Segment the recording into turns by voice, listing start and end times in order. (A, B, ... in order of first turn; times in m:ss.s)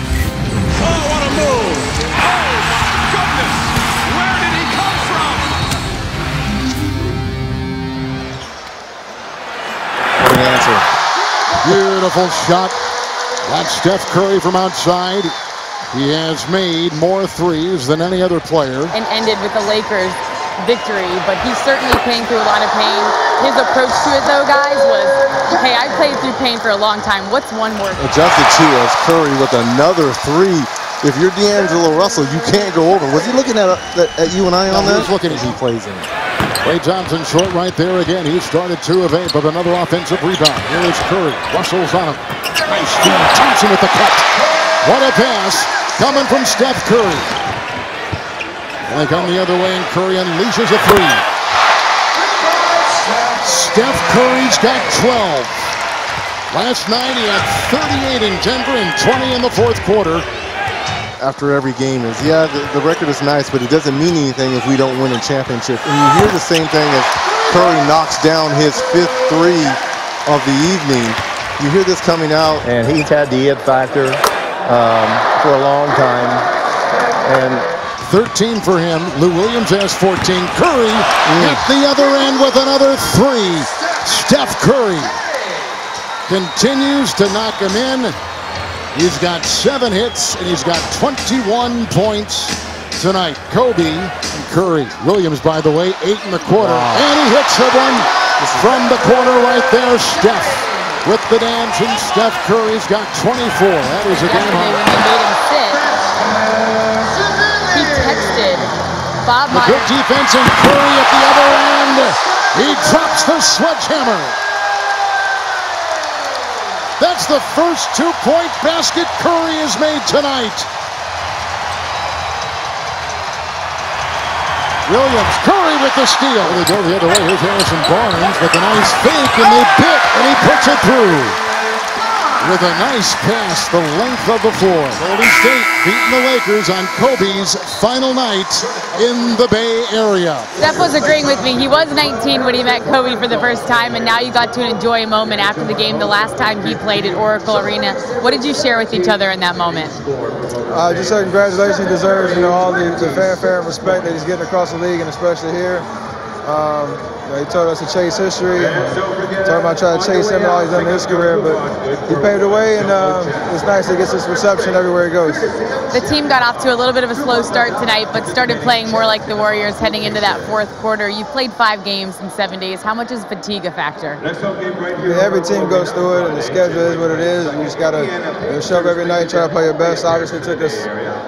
0:00.8-0:05.4 A
0:10.2-0:10.8 B
0:11.6-0:12.8 C
0:13.4-0:15.3 C
0:15.9-0:18.9 C
0:18.9-0:28.0 D
0:28.0-0:35.1 B
0:34.7-0:35.6 C
0:35.2-0:36.0 E
0:36.6-0:44.3 C
0:44.8-0:47.3 C
0:48.9-0:51.2 C
0:53.4-0:55.7 C
0:56.5-1:00.2 C
1:01.2-1:12.6 B
1:12.6-1:16.5 E
1:17.2-1:17.7 E
1:18.0-1:25.1 C
1:26.3-1:28.1 C
1:28.9-1:44.8 C
1:44.2-1:45.9 D
1:47.7-1:48.7 D
1:49.2-1:49.9 D
1:49.5-1:54.4 C
1:57.0-2:00.7 C
2:04.8-2:11.4 C
2:12.4-2:20.5 C
2:20.6-2:30.0 D
2:30.7-2:35.8 F
2:36.4-2:45.4 F
2:45.9-2:54.2 D
2:55.0-3:00.9 F